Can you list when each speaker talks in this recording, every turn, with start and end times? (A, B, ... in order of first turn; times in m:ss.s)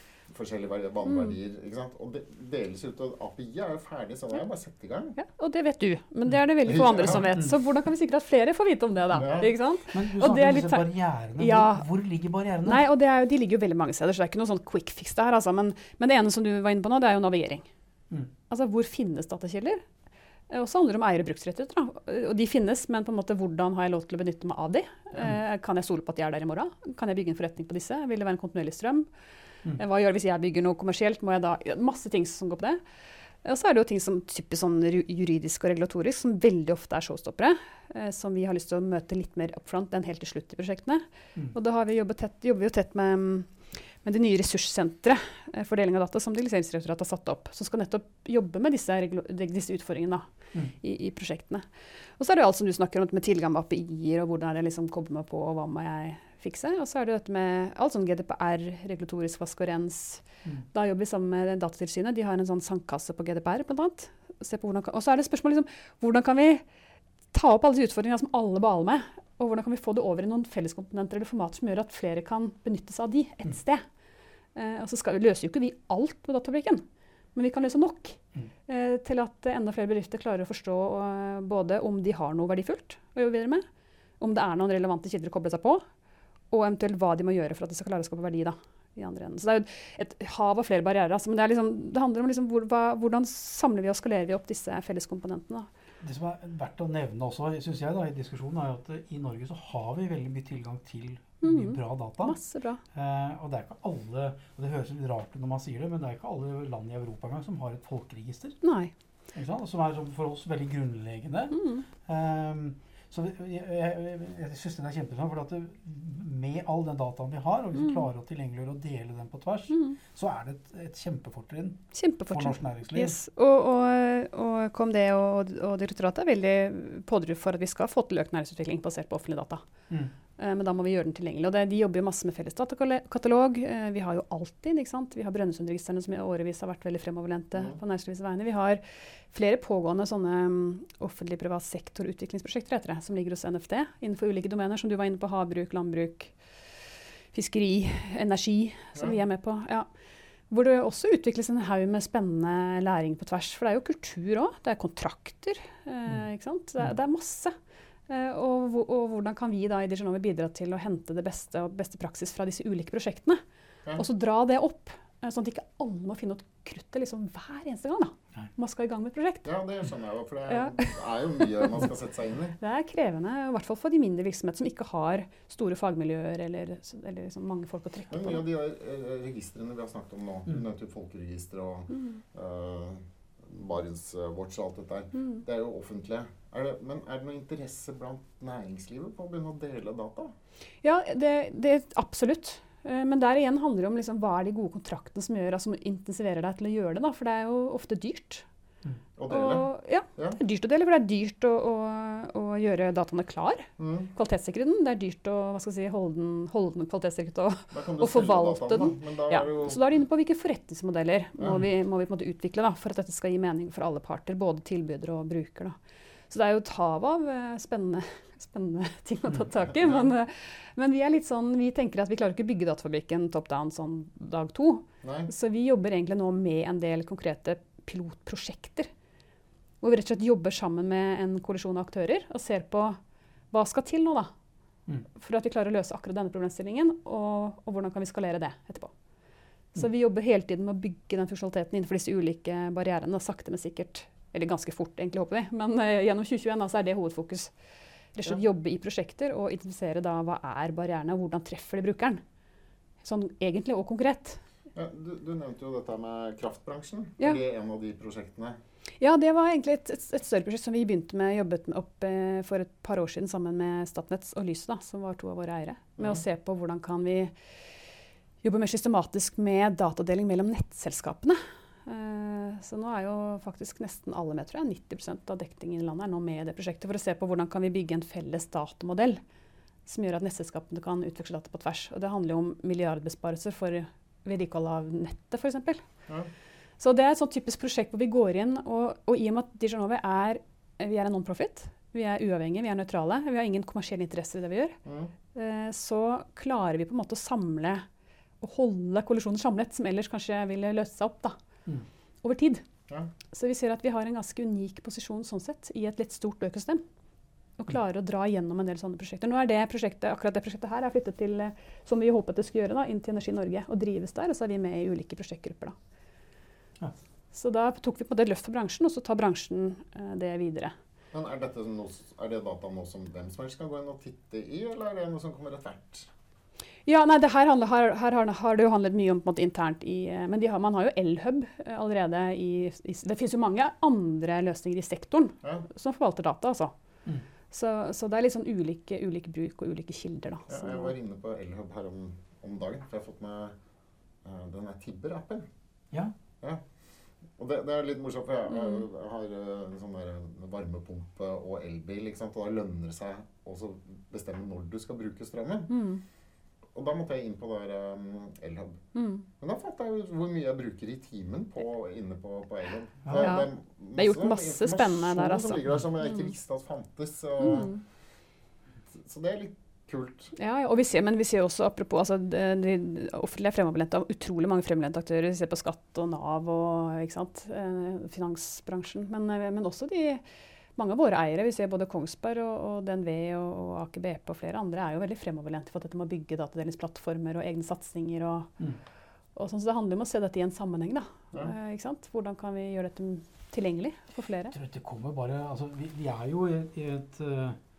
0:00.3-0:05.2 A
0:01.1-0:01.4 B
0:05.2-0:11.9 B
0:06.6-0:07.3 A
0:09.1-0:09.5 A
0:09.9-0:12.8 C
0:12.6-0:17.7 B
0:18.5-0:19.8 B
0:20.5-0:29.1 B
0:29.8-0:32.8 B
0:33.4-0:43.5 B
0:44.0-0:50.3 B
0:50.8-0:51.6 B
0:52.2-1:06.6 B
1:07.3-1:13.8 B
1:14.6-1:16.8 B
1:17.4-1:23.6 B
1:24.2-1:25.8 B
1:26.5-1:35.7 B
1:36.0-1:42.4 C
1:41.4-1:42.8 B
1:42.9-1:48.6 C
1:48.6-1:48.9 B
1:49.3-2:03.2 C
1:51.5-1:51.9 B
1:59.7-2:00.0 B
2:01.9-2:09.6 B
2:10.4-2:26.3 B
2:27.3-2:29.9 B
2:30.5-2:37.5 B
2:38.1-2:43.4 B
2:44.0-2:49.5 B
2:49.5-2:52.6 A
2:50.5-2:51.0 B
2:52.6-2:58.4 B
2:58.1-3:10.3 A
3:01.9-3:02.2 B
3:10.8-3:18.4 B
3:19.2-3:20.4 A
3:19.3-3:35.8 B
3:23.8-3:24.1 A
3:27.7-3:29.8 A
3:36.3-3:48.9 B
3:39.8-3:40.1 A
3:45.0-3:45.3 A
3:49.8-3:53.0 B
3:53.5-3:54.3 B
3:55.2-3:58.9 B
3:59.8-4:07.5 B
4:08.2-4:12.2 B
4:13.0-4:14.4 B
4:14.8-4:18.6 A
4:19.0-4:27.3 B
4:28.4-4:39.2 B
4:39.9-4:45.8 B
4:46.8-4:54.8 B
4:54.8-4:55.1 A
4:55.3-4:57.8 B
4:58.4-5:01.4 B
5:02.2-5:02.6 B
5:03.3-5:06.8 B
5:07.6-5:15.8 B
5:17.3-5:20.7 B
5:21.1-5:26.1 A
5:26.9-5:36.7 B
5:37.5-5:40.9 B
5:40.5-5:43.6 A
5:44.2-5:45.5 A
5:47.4-5:55.7 A
5:48.5-5:48.8 B
5:55.7-5:56.0 B
5:56.7-5:58.8 A
5:59.0-5:59.3 B
5:59.4-6:07.8 A
6:03.1-6:03.4 C
6:03.2-6:06.3 B
6:07.4-6:07.8 B
6:08.9-6:10.3 A
6:10.4-6:20.2 B
6:20.8-6:28.5 B
6:29.4-6:34.5 B
6:34.5-6:37.6 C